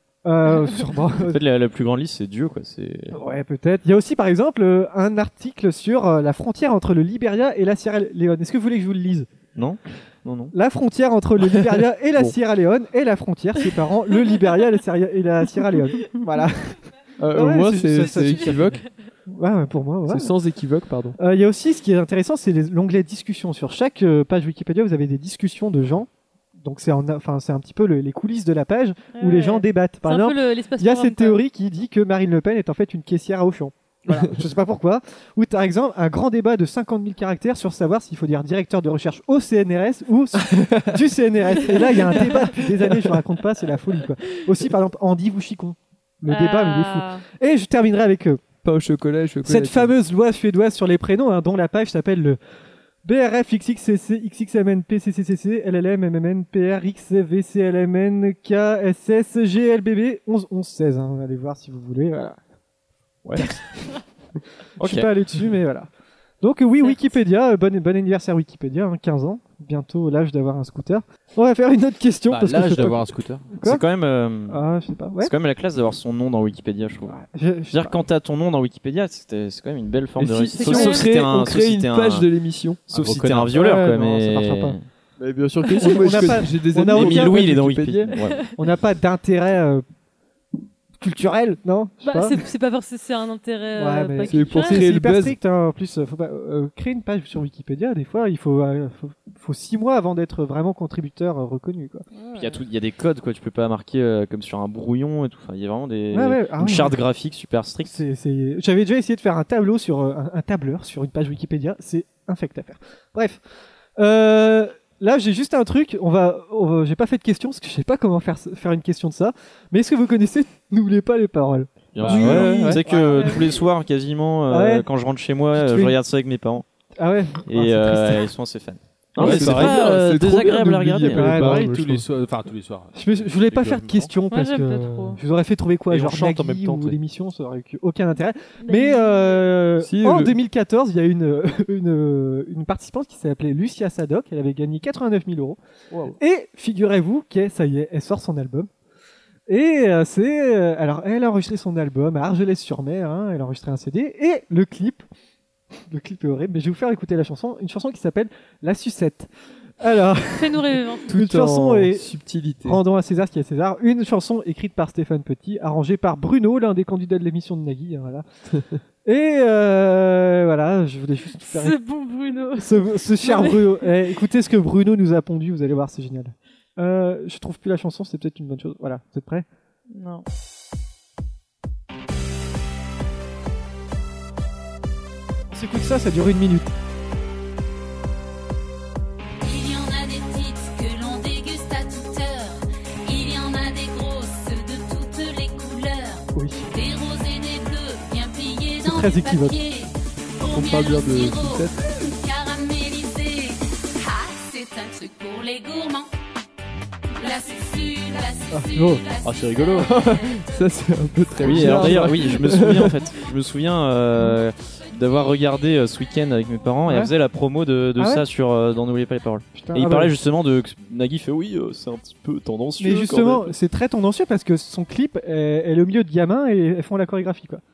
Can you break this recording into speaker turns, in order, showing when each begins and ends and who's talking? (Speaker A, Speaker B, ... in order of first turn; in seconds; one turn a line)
Speaker A: 0.2-1.4
Speaker B: 1.2-3.2
Speaker A: 3.1-9.3
Speaker B: 9.6-10.6
Speaker A: 10.5-20.3
Speaker C: 11.5-12.3
Speaker C: 17.2-18.8
Speaker C: 20.1-21.2
Speaker A: 21.2-48.4
Speaker D: 29.1-31.4
Speaker C: 40.4-41.0
Speaker D: 42.1-42.4
Speaker D: 46.3-47.2
Speaker C: 48.6-49.9
Speaker A: 49.5-52.4
Speaker A: 53.0-62.4
Speaker B: 64.8-65.1
Speaker A: 64.8-65.9
Speaker A: 66.4-73.0
Speaker E: 72.3-73.6
Speaker A: 73.5-73.8
Speaker B: 73.6-74.6
Speaker A: 74.5-75.3
Speaker B: 75.2-77.2
Speaker A: 77.1-78.0
Speaker B: 77.7-82.3
Speaker C: 80.2-82.8
Speaker D: 80.6-81.1
Speaker B: 82.9-84.8
Speaker E: 82.9-83.6
Speaker A: 83.5-84.8
Speaker C: 85.2-88.2
Speaker A: 85.8-87.5
Speaker B: 86.9-88.5
Speaker D: 88.2-88.5
Speaker A: 88.5-89.8
Speaker A: 91.0-92.4
Speaker D: 92.0-94.8
Speaker A: 93.8-102.1
Speaker C: 94.3-95.4
Speaker D: 102.1-102.6
Speaker B: 102.3-108.0
Speaker A: 106.1-107.0
Speaker A: 107.8-113.4
Speaker A: 114.0-123.7
Speaker B: 121.9-126.7
Speaker E: 122.0-122.8
Speaker A: 124.5-124.9
Speaker A: 125.5-126.0
Speaker A: 127.0-128.3
Speaker B: 127.5-131.4
Speaker E: 129.2-129.8
Speaker C: 129.2-132.0
Speaker A: 129.3-129.5
Speaker A: 131.2-131.8
Speaker E: 131.2-134.1
Speaker A: 132.9-145.6
Speaker D: 134.3-135.2
Speaker E: 135.9-137.0
Speaker D: 138.6-139.5
Speaker C: 139.8-140.4
Speaker C: 145.9-146.2
Speaker A: 146.2-148.7
Speaker A: 149.5-155.1
Speaker A: 155.9-159.3
Speaker A: 159.8-162.1
Speaker D: 160.3-161.1
Speaker C: 161.1-162.8
Speaker A: 162.7-168.2
Speaker A: 169.1-171.8
Speaker D: 171.4-173.9
Speaker A: 172.6-179.5
Speaker D: 179.9-180.2
Speaker A: 185.5-186.7
Speaker F: 189.4-206.1
Speaker A: 196.3-196.7
Speaker A: 198.8-199.6
Speaker C: 200.5-201.8
Speaker F: 207.2-210.2
Speaker A: 208.5-209.0
Speaker E: 209.2-209.9
Speaker C: 209.8-213.0
Speaker B: 211.4-223.5
Speaker A: 216.9-217.1
Speaker A: 218.0-218.3
Speaker A: 219.5-220.1
Speaker A: 222.8-227.6